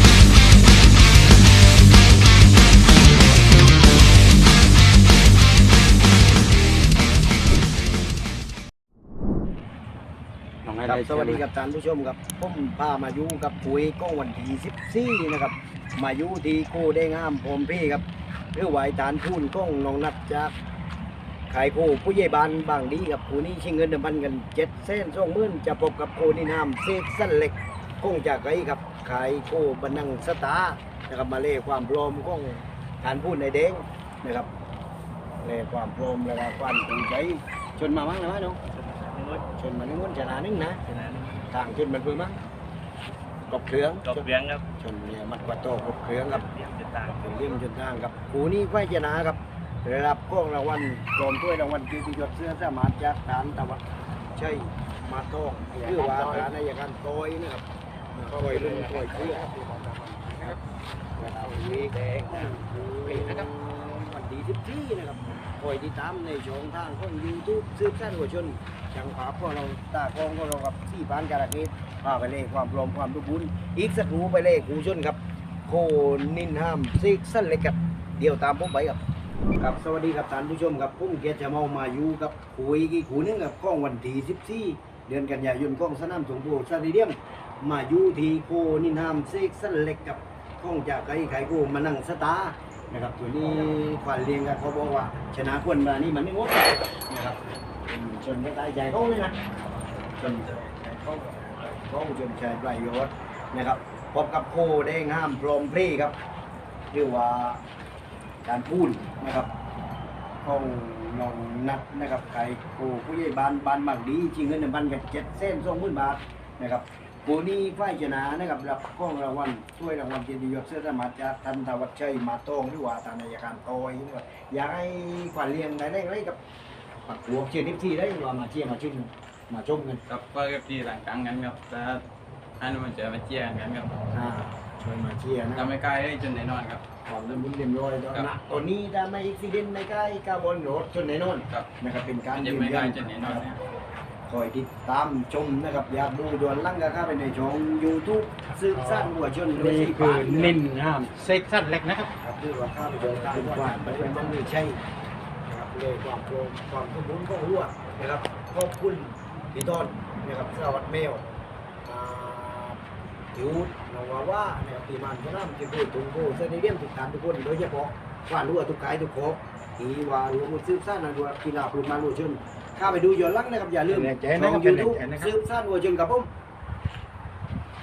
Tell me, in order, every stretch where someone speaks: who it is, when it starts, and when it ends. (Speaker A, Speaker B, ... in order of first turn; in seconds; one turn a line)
Speaker A: 10.6-11.4
Speaker B: 10.8-20.5
Speaker B: 21.5-34.5
Speaker B: 35.4-38.6
Speaker C: 38.7-39.5
Speaker B: 39.6-40.8
Speaker C: 40.8-41.5
Speaker B: 41.5-42.4
Speaker B: 43.5-44.2
Speaker C: 44.0-44.6
Speaker B: 44.8-46.5
Speaker C: 46.1-47.6
Speaker B: 47.1-53.8
Speaker B: 54.4-59.5
Speaker A: 55.7-56.5
Speaker A: 58.3-60.6
Speaker A: 61.2-63.5
Speaker B: 61.2-79.0
Speaker B: 79.6-99.4
Speaker B: 100.2-100.5
Speaker C: 100.2-101.7
Speaker B: 101.7-106.2
Speaker B: 106.9-107.6
Speaker B: 108.5-109.5
Speaker B: 110.4-126.4
Speaker B: 127.1-130.0
Speaker D: 130.1-132.1
Speaker D: 132.6-133.9
Speaker B: 134.1-135.7
Speaker D: 135.6-136.8
Speaker B: 137.1-143.5
Speaker D: 138.1-138.7
Speaker D: 142.3-143.6
Speaker B: 144.3-150.6
Speaker A: 148.7-152.1
Speaker B: 152.2-154.8
Speaker A: 153.0-154.4
Speaker B: 155.5-161.2
Speaker B: 161.8-162.8
Speaker B: 163.3-176.3
Speaker A: 173.9-175.3